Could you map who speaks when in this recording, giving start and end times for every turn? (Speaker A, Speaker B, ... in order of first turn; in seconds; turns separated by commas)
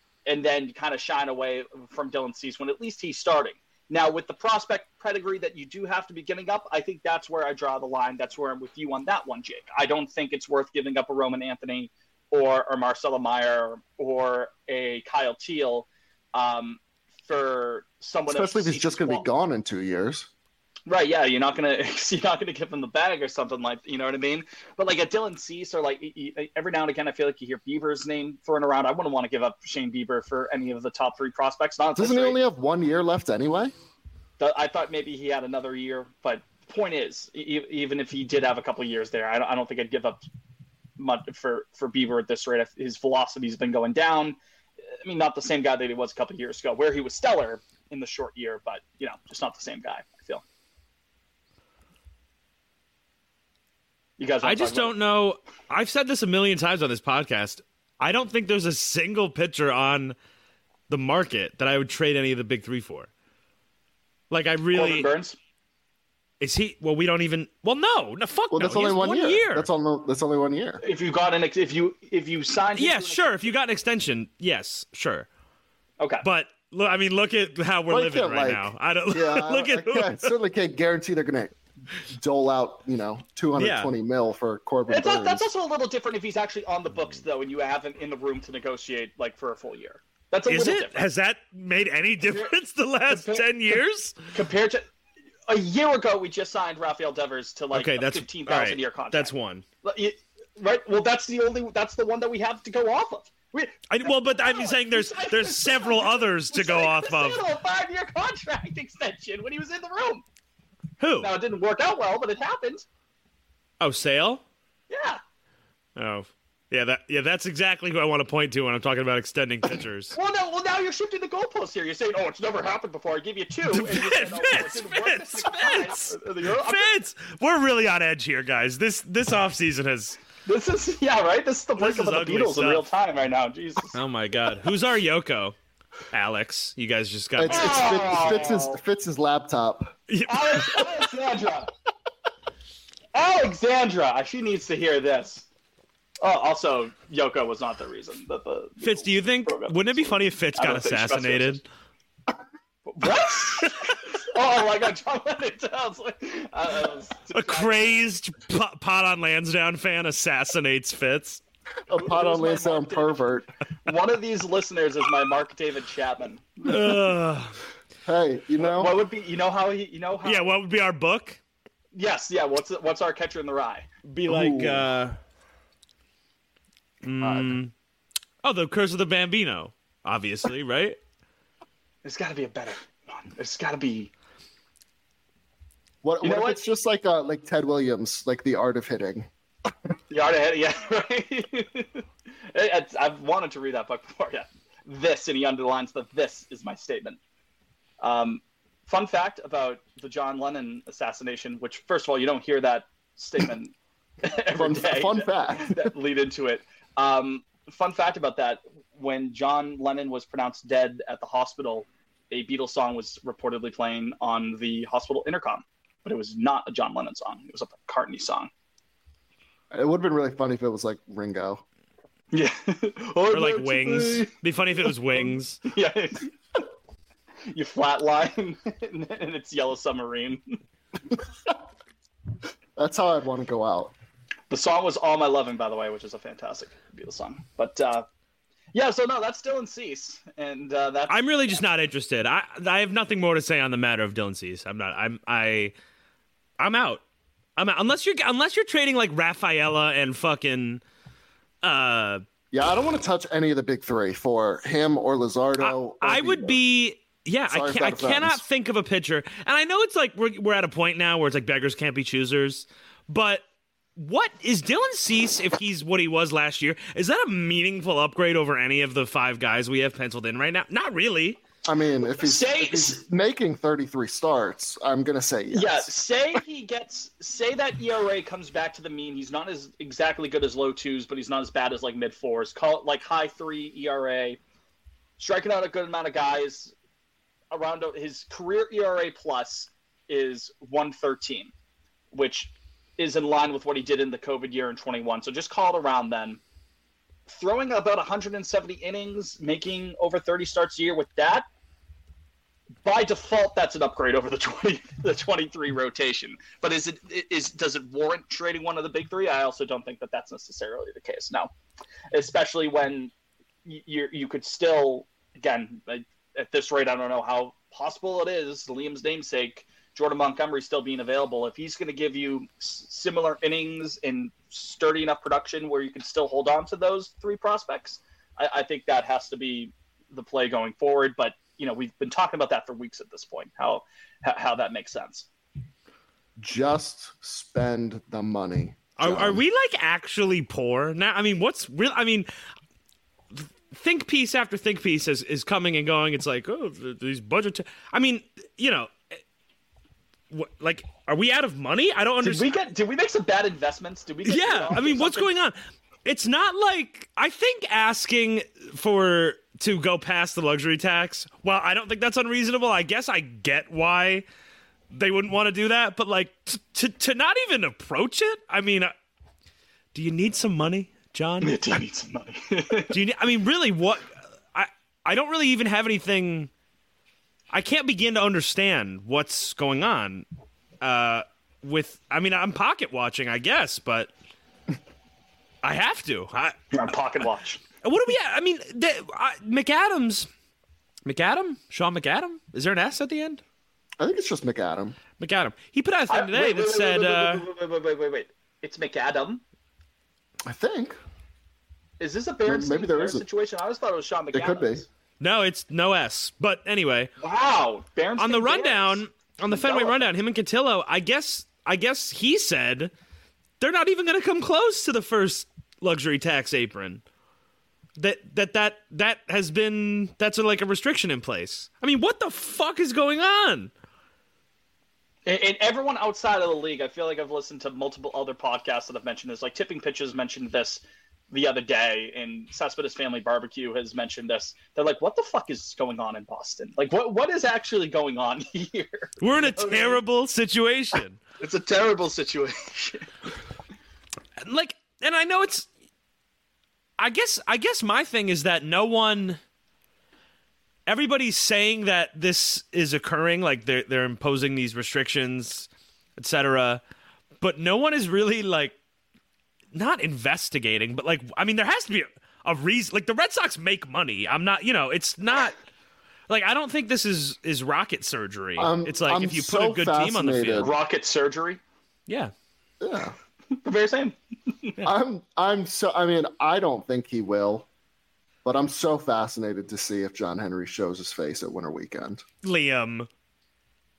Speaker A: 0.2-19.2, Speaker B: 18.3-20.3, Speaker A: 20.9-32.4, Speaker B: 31.9-33.7, Speaker A: 34.4-40.2, Speaker A: 41.0-44.4, Speaker A: 45.0-50.4, Speaker A: 54.2-55.0, Speaker C: 54.4-60.1, Speaker C: 60.9-63.1, Speaker C: 64.3-65.1, Speaker A: 64.7-65.3, Speaker C: 66.4-69.7, Speaker B: 68.5-70.8, Speaker A: 70.8-73.5, Speaker C: 72.8-75.3, Speaker A: 76.0-76.2, Speaker C: 76.2-80.3, Speaker B: 77.9-81.5, Speaker B: 82.1-85.5, Speaker C: 83.6-83.9, Speaker A: 84.9-91.0, Speaker C: 90.5-94.2, Speaker A: 92.2-92.5, Speaker A: 93.1-93.8, Speaker A: 94.3-94.8, Speaker A: 95.5-110.2, Speaker C: 97.7-99.6, Speaker C: 103.9-107.4, Speaker C: 111.0-111.3, Speaker A: 111.2-112.8, Speaker C: 113.8-114.4, Speaker A: 114.9-115.2, Speaker C: 116.0-120.2, Speaker A: 120.1-126.9, Speaker C: 123.7-130.2, Speaker A: 130.4-134.0, Speaker C: 131.8-132.8, Speaker C: 133.9-135.5, Speaker C: 136.1-137.9, Speaker B: 137.3-140.0, Speaker A: 137.5-138.8, Speaker C: 140.1-140.9, Speaker A: 140.3-141.7, Speaker A: 143.1-145.4, Speaker A: 146.2-151.6, Speaker C: 148.8-151.6, Speaker A: 152.8-158.1, Speaker C: 157.3-161.4, Speaker B: 161.9-163.5, Speaker A: 161.9-163.2, Speaker A: 163.8-166.9, Speaker C: 166.6-167.6, Speaker B: 168.0-169.0, Speaker A: 168.6-170.5, Speaker C: 170.2-171.4, Speaker A: 171.9-173.8, Speaker C: 174.1-175.2, Speaker B: 174.2-174.9, Speaker C: 177.0-177.7, Speaker B: 177.2-177.5, Speaker C: 178.4-181.0, Speaker A: 182.0-184.1, Speaker B: 186.0-189.3, Speaker A: 186.2-186.6, Speaker A: 190.1-197.2, Speaker A: 198.0-218.5, Speaker B: 204.5-205.9, Speaker B: 219.7-221.6, Speaker A: 222.3-224.3, Speaker C: 223.3-225.6, Speaker A: 224.8-226.3, Speaker A: 227.5-230.4, Speaker B: 232.8-233.9, Speaker A: 234.5-238.1, Speaker A: 238.7-241.2, Speaker C: 241.1-245.7, Speaker C: 246.6-247.0, Speaker C: 247.6-250.8, Speaker C: 251.6-252.2, Speaker B: 252.5-256.6, Speaker C: 255.6-263.4, Speaker B: 257.5-258.4, Speaker C: 263.9-271.4, Speaker B: 271.6-275.9, Speaker A: 272.1-273.0, Speaker A: 275.5-284.4, Speaker A: 285.2-286.7, Speaker A: 287.5-291.5, Speaker A: 292.1-296.4, Speaker A: 297.3-301.4, Speaker A: 302.8-311.5, Speaker A: 312.1-313.1, Speaker A: 313.6-335.3, Speaker B: 336.4-339.4, Speaker C: 339.0-342.3, Speaker C: 343.3-349.1, Speaker C: 350.3-352.5, Speaker A: 352.2-355.3, Speaker C: 354.2-364.2, Speaker C: 364.9-368.9, Speaker C: 369.9-371.6, Speaker A: 371.4-373.0, Speaker C: 372.9-376.5, Speaker C: 377.5-380.2, Speaker C: 380.8-384.1, Speaker C: 385.6-386.6, Speaker A: 386.7-387.6, Speaker C: 387.8-390.3, Speaker C: 391.0-393.4, Speaker B: 394.0-395.0, Speaker C: 395.2-397.4, Speaker A: 396.1-399.4, Speaker B: 400.4-401.0, Speaker A: 402.0-404.9, Speaker B: 402.4-403.2, Speaker B: 404.3-404.8, Speaker C: 405.2-407.1, Speaker A: 407.2-410.1, Speaker C: 408.2-412.9, Speaker C: 413.6-417.0, Speaker C: 418.0-423.7, Speaker A: 425.2-440.0, Speaker C: 439.2-441.2, Speaker A: 441.4-443.1, Speaker C: 444.4-445.7, Speaker C: 447.0-449.4, Speaker C: 450.9-456.8, Speaker C: 457.4-458.7, Speaker C: 459.7-465.6, Speaker C: 466.3-470.7, Speaker B: 468.6-470.7, Speaker A: 470.6-471.6, Speaker C: 472.1-472.3, Speaker B: 472.8-473.1, Speaker A: 473.5-474.7, Speaker B: 474.8-477.7, Speaker B: 478.4-482.2, Speaker C: 482.4-483.1